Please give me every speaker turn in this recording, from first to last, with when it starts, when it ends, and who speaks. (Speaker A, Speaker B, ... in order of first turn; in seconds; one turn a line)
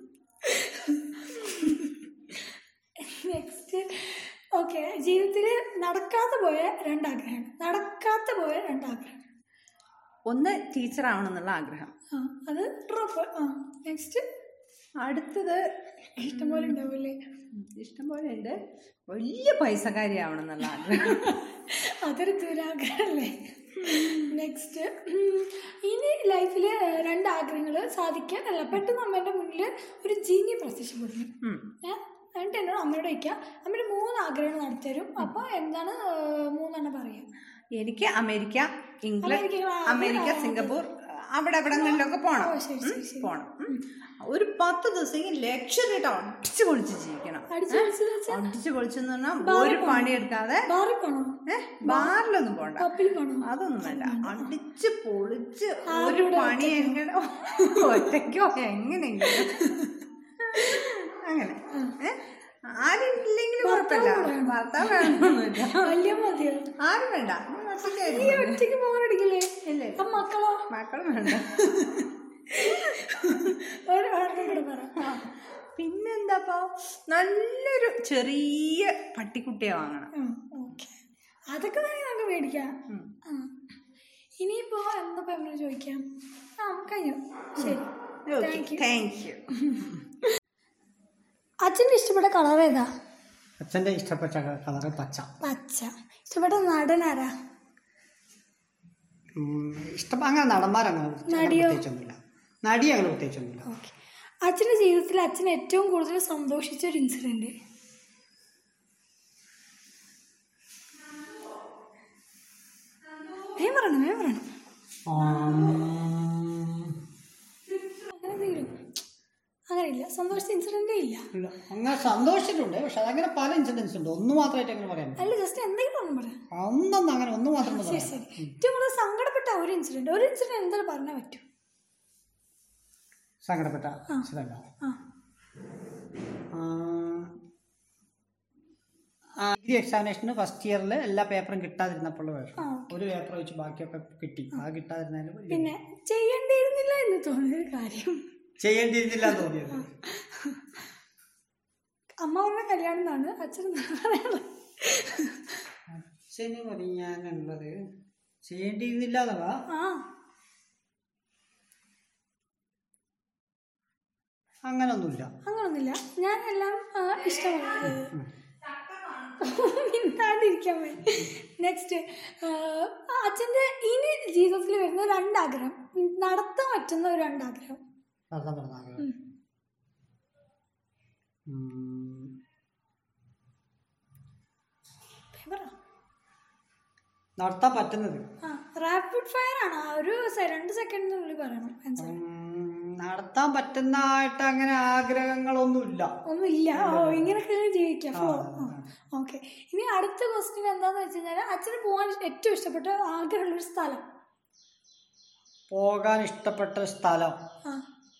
Speaker A: 0.4-2.0
Speaker A: 3.0-9.2
Speaker B: 10.3-11.9
Speaker A: 12.1-14.2
Speaker B: 15.0-15.6
Speaker B: 16.2-16.8
Speaker A: 16.2-17.2
Speaker B: 17.5-21.2
Speaker A: 20.8-37.3
Speaker B: 23.8-24.3
Speaker B: 37.8-50.6
Speaker A: 39.2-40.8
Speaker A: 41.7-43.8
Speaker A: 47.5-48.5
Speaker A: 49.4-52.2
Speaker B: 51.5-52.9
Speaker A: 52.8-54.5
Speaker B: 53.4-59.7
Speaker A: 55.9-57.0
Speaker A: 57.5-58.0
Speaker A: 59.2-60.0
Speaker B: 60.4-66.0
Speaker A: 60.5-60.8
Speaker A: 61.7-62.0
Speaker A: 63.6-66.7
Speaker B: 66.8-68.6
Speaker A: 67.8-70.7
Speaker B: 69.7-70.1
Speaker B: 70.7-71.6
Speaker A: 71.3-75.1
Speaker B: 72.6-73.2
Speaker B: 75.0-80.1
Speaker A: 80.1-83.5
Speaker A: 84.4-86.1
Speaker A: 86.6-88.8
Speaker B: 87.6-89.5
Speaker A: 89.6-90.0
Speaker A: 91.6-92.9
Speaker C: 93.6-95.3
Speaker A: 95.4-97.3
Speaker C: 99.4-103.7
Speaker A: 101.3-101.8
Speaker A: 103.7-107.5
Speaker A: 113.5-114.5
Speaker C: 115.1-117.0
Speaker A: 118.0-118.8
Speaker A: 119.7-121.3
Speaker C: 121.3-125.2
Speaker A: 125.2-126.4
Speaker C: 126.5-128.5
Speaker A: 127.6-131.4
Speaker C: 133.4-134.7
Speaker C: 136.5-137.3
Speaker C: 139.4-145.7
Speaker A: 142.6-142.9
Speaker A: 145.5-148.2
Speaker C: 148.6-149.9
Speaker A: 149.2-150.8
Speaker A: 152.2-155.6
Speaker C: 155.9-157.7
Speaker C: 158.4-159.6
Speaker A: 159.7-160.1
Speaker C: 164.7-165.3
Speaker A: 165.4-168.1
Speaker C: 167.9-168.3
Speaker B: 168.7-169.3
Speaker A: 169.4-177.8
Speaker C: 178.3-179.1
Speaker C: 181.5-182.3
Speaker A: 185.3-185.7
Speaker C: 187.4-188.2
Speaker A: 188.4-192.2
Speaker C: 192.0-196.1
Speaker A: 196.2-204.0
Speaker C: 196.7-197.3
Speaker C: 198.1-198.8
Speaker C: 205.7-207.3